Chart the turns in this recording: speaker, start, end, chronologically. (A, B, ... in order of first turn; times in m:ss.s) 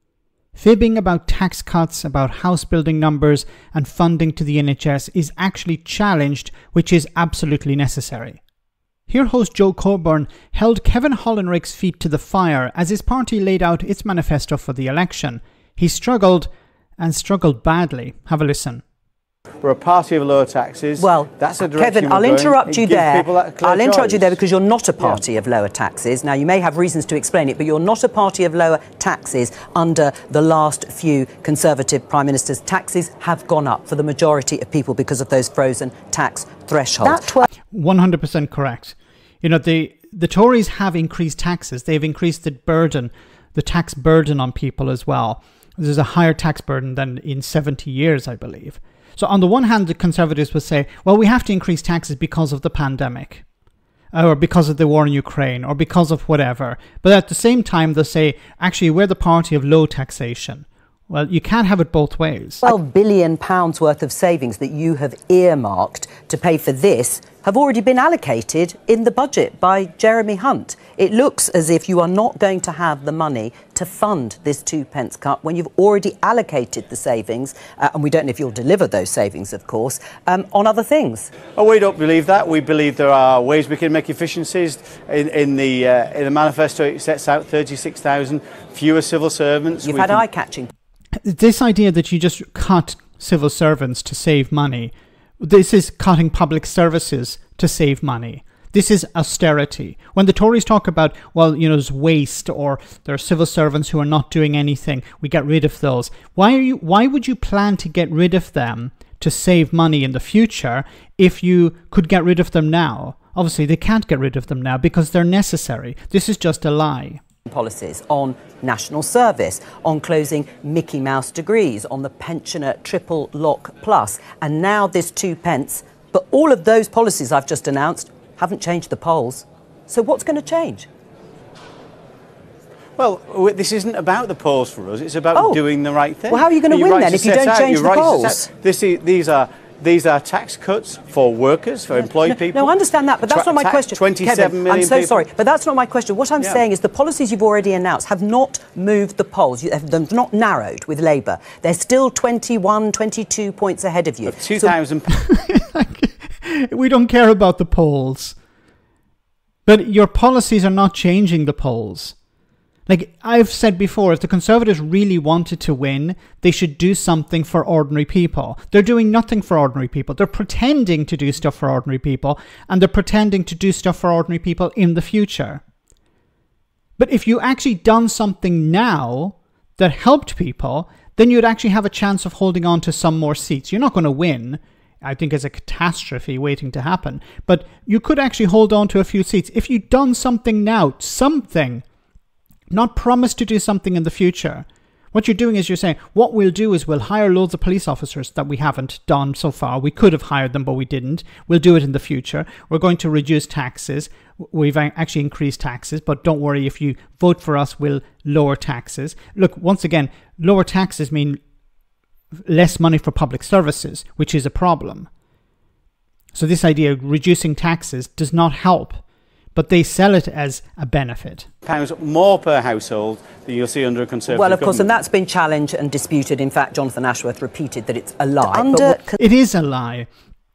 0:00.5-0:08.4 A
0:09.1-0:18.8 A
0:19.6-0:24.4 B
0:21.0-0:37.4 C
0:37.0-0:53.4 A
0:54.1-1:02.7 A
1:02.6-1:21.3 C
1:21.5-1:30.2 B
1:29.8-1:30.7 C
1:31.2-1:57.2 A
1:57.5-2:10.9 C
2:13.0-2:22.7 B
2:15.3-2:15.6 C
2:16.3-2:18.4 C
2:22.2-2:34.7 C
2:23.3-2:25.2 B
2:34.3-2:35.1 B
2:35.1-2:38.4 A
2:39.6-2:42.1 A
2:42.9-2:55.6 A
2:57.0-3:11.8 A
3:12.7-3:31.4 A
3:32.4-3:35.1 A
3:36.3-3:39.0 A
3:39.5-3:41.5 A
3:41.6-3:45.0 B
3:44.3-3:49.2 C
3:48.5-3:50.1 A